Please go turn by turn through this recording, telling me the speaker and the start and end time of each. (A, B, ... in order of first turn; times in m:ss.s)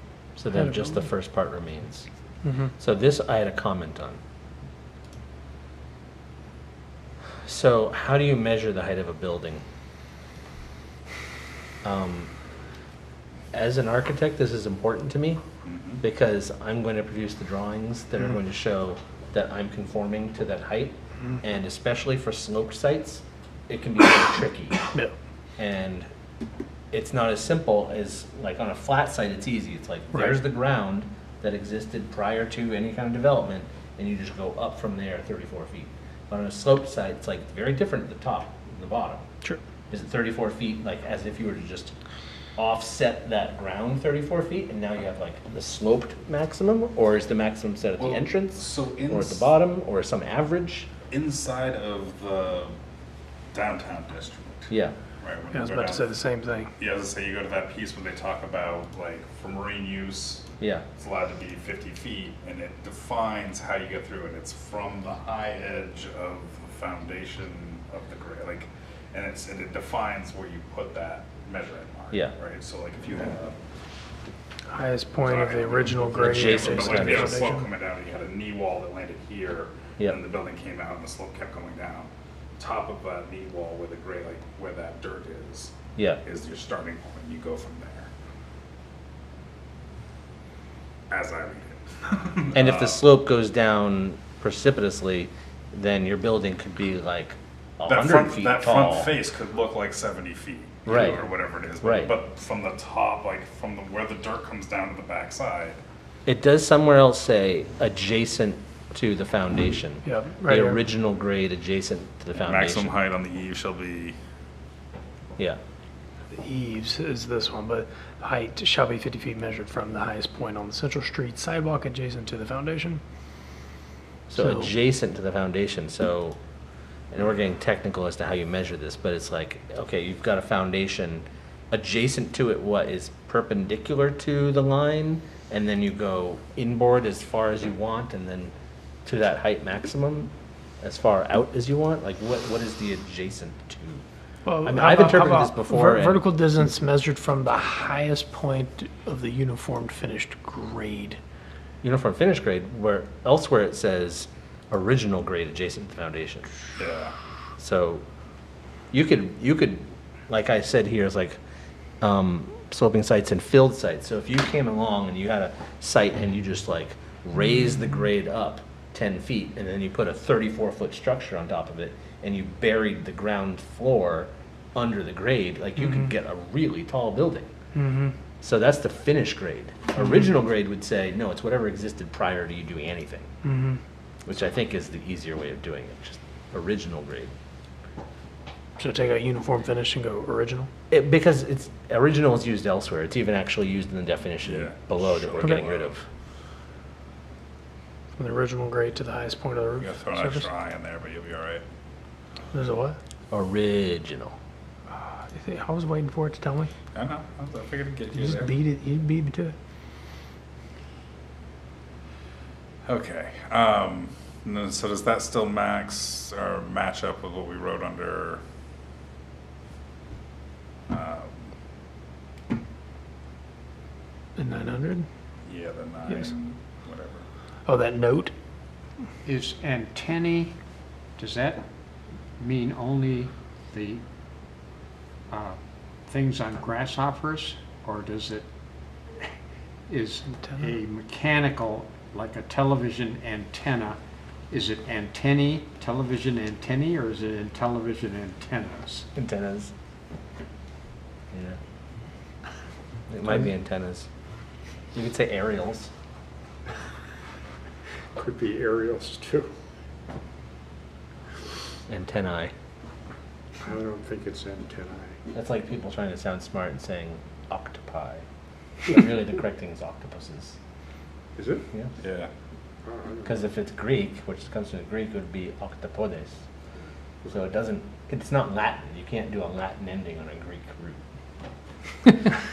0:00.4-0:02.1 A
0:00.5-0:01.1 B
0:02.4-0:02.7 B
0:02.8-0:04.2 A
0:07.4-0:09.6 A
0:11.8-0:12.3 A
0:13.5-0:15.4 A
0:15.6-0:16.0 C
0:16.0-0:24.8 A
0:25.6-0:26.1 A
0:26.9-0:39.2 A
0:30.1-0:30.4 B
0:39.9-0:42.0 A
0:42.6-0:50.9 A
0:48.0-0:49.5 C
0:51.1-0:52.7 C
0:53.5-0:54.7 C
0:54.7-0:54.9 A
0:55.2-0:56.0 C
0:55.5-0:56.7 B
0:56.8-1:00.4 C
1:00.6-1:00.8 A
1:01.0-1:13.6 C
1:14.7-1:17.7 B
1:15.2-1:28.1 C
1:16.2-1:17.4 A
1:26.0-1:26.2 A
1:31.1-1:33.0 C
1:32.5-1:39.2 A
1:37.8-1:45.8 C
1:40.8-1:41.2 A
1:41.8-1:42.1 A
1:46.2-1:53.0 A
1:50.0-1:50.8 B
1:52.4-1:54.2 C
1:56.3-2:03.0 B
2:04.3-2:06.4 A
2:04.3-2:04.7 B
2:07.1-2:18.5 A
2:19.0-2:24.0 A
2:24.4-2:31.2 B
2:24.6-2:26.2 A
2:31.8-2:36.5 A
2:36.8-2:37.1 C
2:37.6-2:38.0 A
2:38.9-2:41.4 A
2:42.0-2:57.5 A
2:55.8-2:56.0 B
2:57.8-2:58.1 B
2:58.4-3:03.3 A
3:03.4-3:03.8 B
3:04.2-3:07.3 A
3:08.8-3:10.7 B
3:10.9-3:16.0 A
3:14.4-3:15.9 C
3:18.2-3:20.5 B
3:19.8-3:21.6 C
3:22.5-3:23.0 B
3:23.3-3:24.4 A
3:24.9-3:26.7 B
3:26.9-3:28.6 C
3:28.1-3:29.5 B
3:32.8-3:38.4 C
3:40.9-3:41.3 C
3:44.4-3:45.0 B
3:45.4-3:47.2 C
3:47.6-3:48.3 B
3:49.2-3:50.6 D
3:51.2-3:51.6 D
3:52.4-3:54.0 D
3:55.3-3:58.5 D
3:59.9-4:04.0 D
4:00.4-4:00.7 B
4:04.5-4:09.1 D
4:09.1-4:09.7 A
4:11.3-4:11.6 A
4:13.1-4:14.1 A
4:14.9-4:15.9 A
4:18.1-4:19.5 D
4:21.9-4:22.5 A
4:23.6-4:25.2 D
4:25.3-4:28.2 A
4:28.8-4:30.6 A
4:31.4-4:31.6 D
4:32.0-4:32.3 C
4:32.8-4:33.4 D
4:33.2-4:36.4 A
4:37.3-4:41.0 A